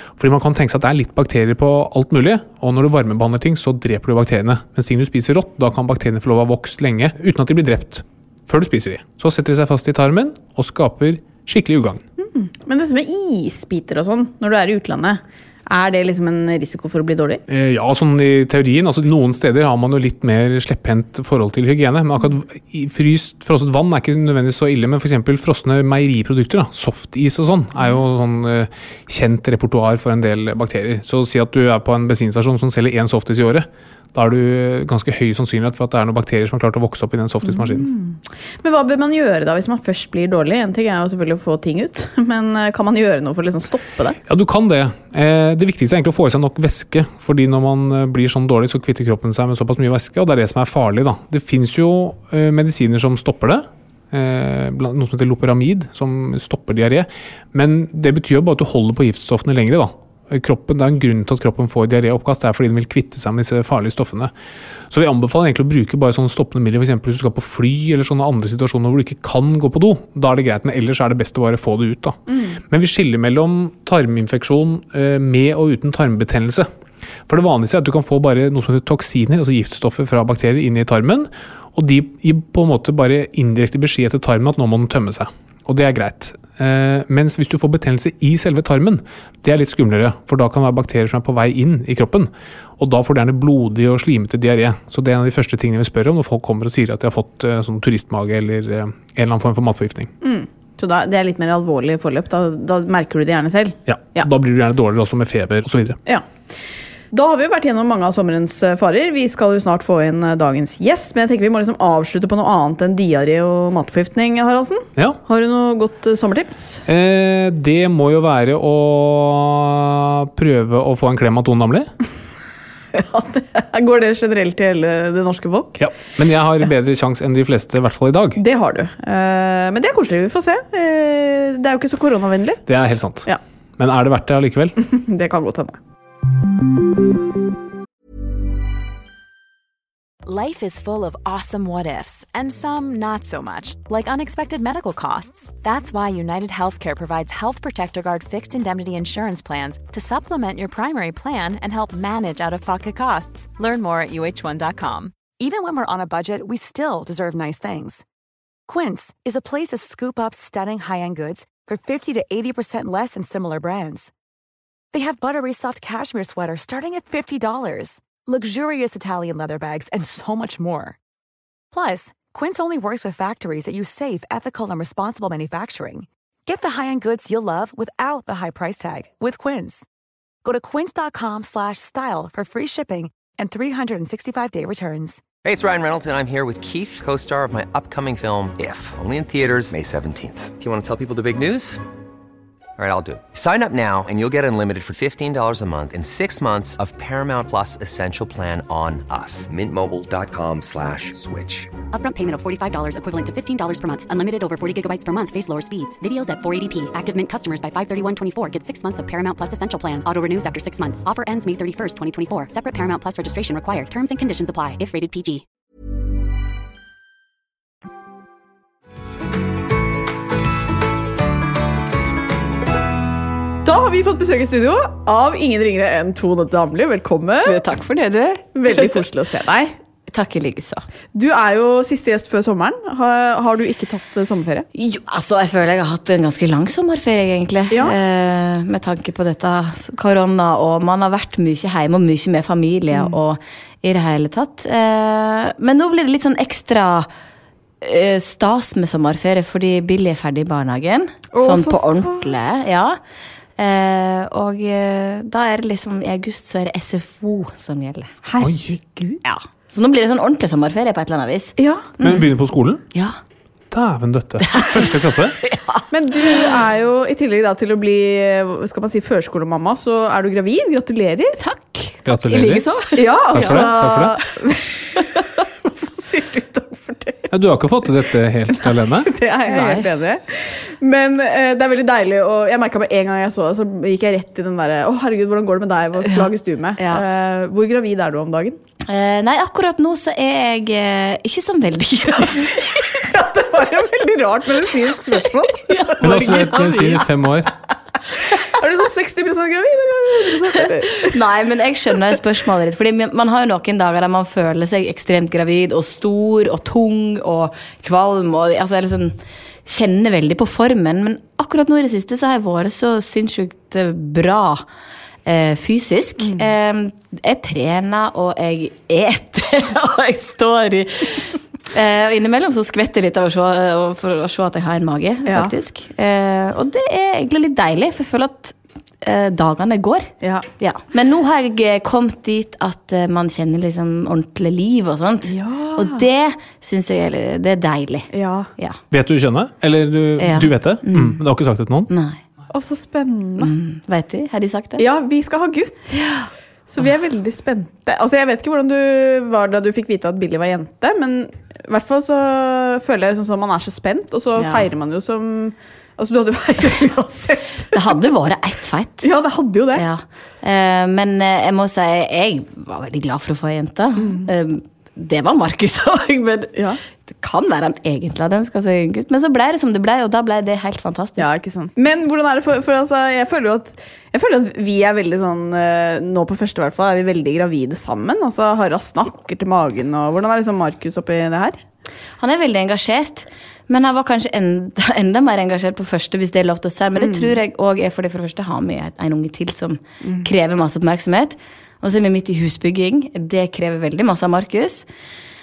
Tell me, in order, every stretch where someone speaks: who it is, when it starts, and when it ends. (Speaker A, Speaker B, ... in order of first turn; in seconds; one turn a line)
Speaker A: 0.2-12.0
Speaker B: 12.2-17.4
Speaker A: 17.5-37.9
Speaker B: 37.4-44.2
Speaker A: 44.3-64.3
Speaker A: 64.9-76.7
Speaker B: 72.3-72.6
Speaker A: 77.3-100.1
Speaker B: 100.2-104.3
Speaker A: 103.9-106.0
Speaker B: 107.1-116.8
Speaker A: 116.9-121.9
Speaker B: 122.9-125.8
Speaker A: 125.8-128.4
Speaker B: 128.4-132.6
Speaker A: 132.7-133.3
Speaker A: 133.8-134.7
Speaker B: 134.8-135.8
Speaker C: 140.2-155.2
Speaker D: 155.3-158.0
Speaker D: 158.7-164.1
Speaker D: 164.9-171.0
Speaker D: 171.7-179.8
Speaker D: 180.4-185.2
Speaker E: 185.4-191.8
Speaker E: 192.8-201.7
Speaker F: 201.9-215.4
Speaker B: 223.6-227.6
Speaker G: 227.4-229.0
Speaker B: 228.5-229.7
Speaker G: 230.1-230.8
Speaker B: 231.1-234.7
Speaker G: 234.7-247.1
Speaker B: 237.7-238.0
Speaker B: 242.9-243.2
Speaker G: 247.8-253.0
Speaker B: 251.3-252.6
Speaker G: 253.6-262.3
Speaker A: 258.4-258.7
Speaker B: 261.6-261.9
Speaker A: 262.0-262.8
Speaker A: 263.7-265.4
Speaker G: 264.4-266.4
Speaker B: 265.9-271.4
Speaker G: 271.4-273.9
Speaker A: 272.1-272.6
Speaker B: 272.9-277.3
Speaker A: 273.3-274.1
Speaker A: 277.3-279.1
Speaker B: 279.1-288.6
Speaker G: 279.5-279.9
Speaker G: 286.0-287.0
Speaker G: 288.9-293.0
Speaker B: 293.1-297.0
Speaker G: 295.6-297.0
Speaker A: 296.0-297.5
Speaker B: 298.4-301.1
Speaker G: 300.9-314.6
Speaker G: 315.2-338.8
Speaker B: 325.2-325.5
Speaker B: 330.2-330.5
Speaker B: 335.3-336.0
Speaker B: 338.1-338.5
Speaker A: 338.9-341.9
Speaker G: 340.2-341.2
Speaker G: 341.9-342.2
Speaker B: 342.5-343.5
Speaker G: 343.4-344.8
Speaker B: 344.8-345.9
Speaker G: 345.9-346.3
Speaker B: 346.7-357.9
Speaker G: 354.4-354.7
Speaker G: 357.7-359.1
Speaker B: 359.0-359.8
Speaker G: 359.7-371.3
Speaker B: 364.0-364.3
Speaker B: 371.2-381.6
Speaker G: 382.2-394.9
Speaker B: 386.9-387.4
Speaker B: 390.0-390.3